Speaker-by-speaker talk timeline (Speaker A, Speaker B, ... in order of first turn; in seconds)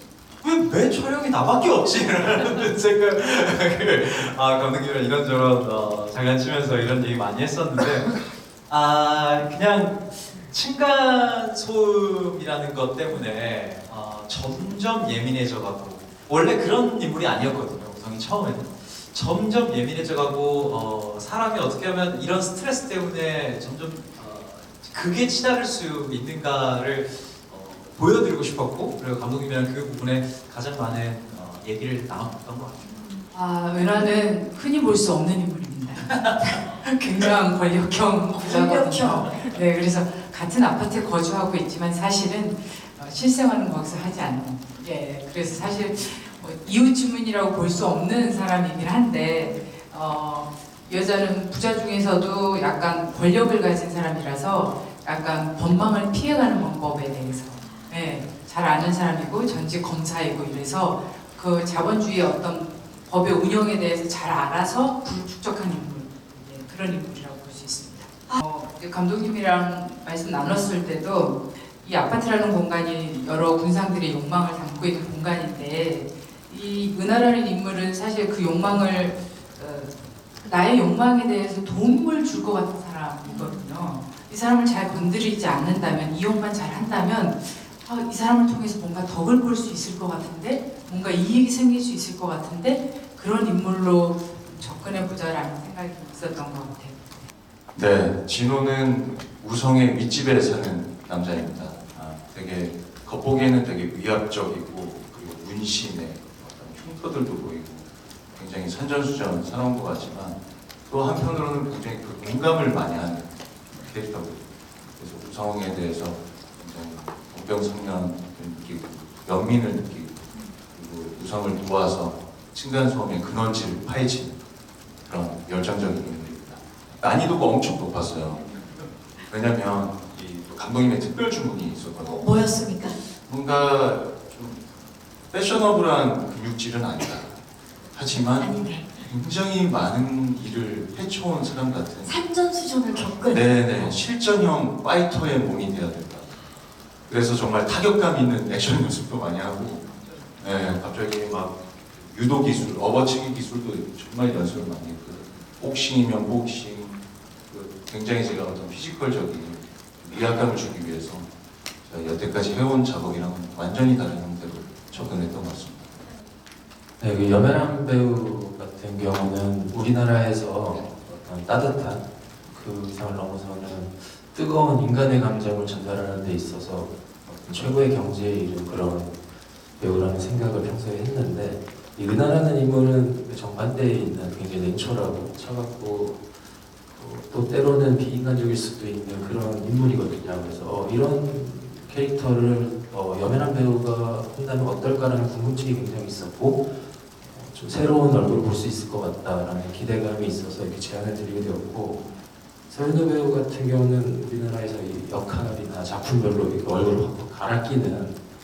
Speaker A: 0.4-33.0, 36.1-36.4
Speaker B: 33.3-97.2
Speaker C: 38.3-39.5, 83.2-83.6, 132.0-132.9, 138.4-139.0, 142.0-143.9
Speaker D: 97.7-124.4, 125.0-128.6, 129.3-132.4, 133.2-134.6, 135.3-137.3, 137.9-142.2, 143.3-146.3, 147.1-149.8, 150.4-157.0, 157.5-161.3, 161.8-166.0
Speaker E: 167.0-179.2, 179.8-186.2, 186.9-196.7, 197.2-202.1, 202.7-208.2